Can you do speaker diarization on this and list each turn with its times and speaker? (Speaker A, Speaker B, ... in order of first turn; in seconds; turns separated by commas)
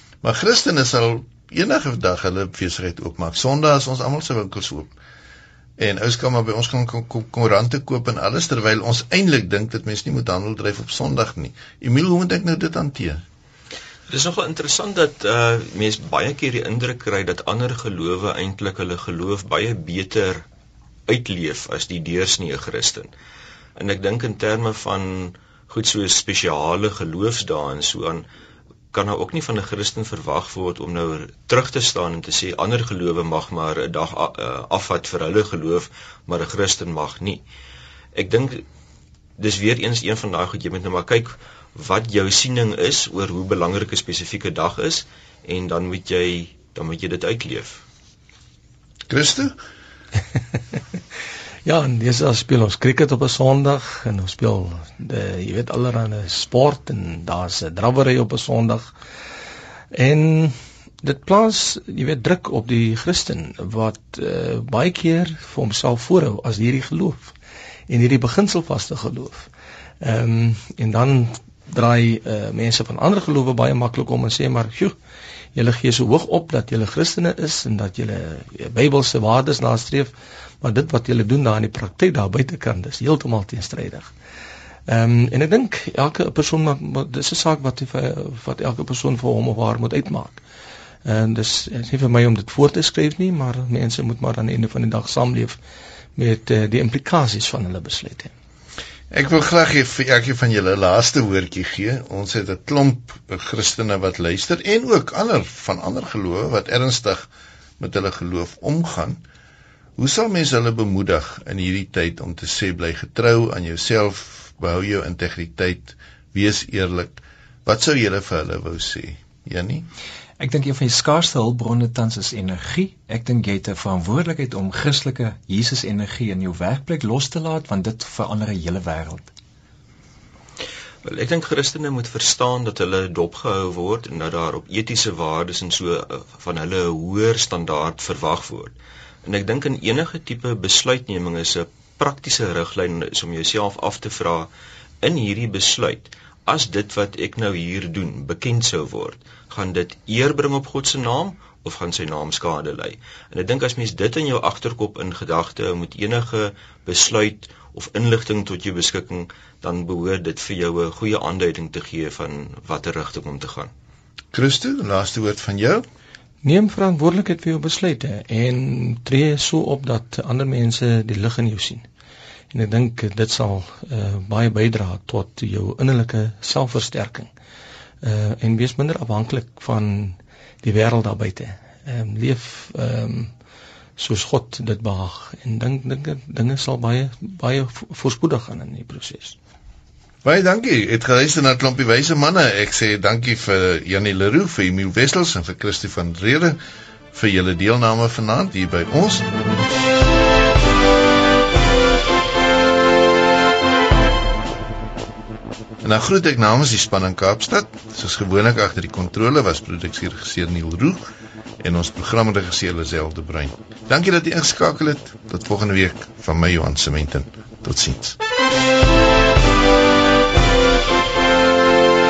Speaker A: 0.2-4.9, Speaker A: 5.8-13.2, Speaker B: 14.1-20.4, Speaker B: 21.1-23.1, Speaker B: 23.8-28.2, Speaker B: 28.9-37.4, Speaker B: 38.1-38.6, Speaker B: 39.4-47.8, Speaker A: 49.1-49.5, Speaker C: 51.6-58.9, Speaker C: 59.9-67.3, Speaker C: 67.9-69.5, Speaker C: 70.0-74.9, Speaker C: 75.5-84.1, Speaker C: 84.9-90.4, Speaker C: 91.0-95.6, Speaker C: 96.2-98.3, Speaker A: 99.1-107.2, Speaker A: 107.8-109.2, Speaker A: 110.0-119.9, Speaker D: 120.4-129.3, Speaker B: 131.0-138.7, Speaker B: 139.2-144.5, Speaker B: 145.0-163.7, Speaker A: 164.3-165.8, Speaker C: 166.4-171.8, Speaker C: 172.5-177.3, Speaker C: 178.0-183.3, Speaker C: 184.0-189.4, Speaker A: 190.2-196.6, Speaker A: 197.1-199.3, Speaker A: 205.8-211.1, Speaker A: 211.6-218.2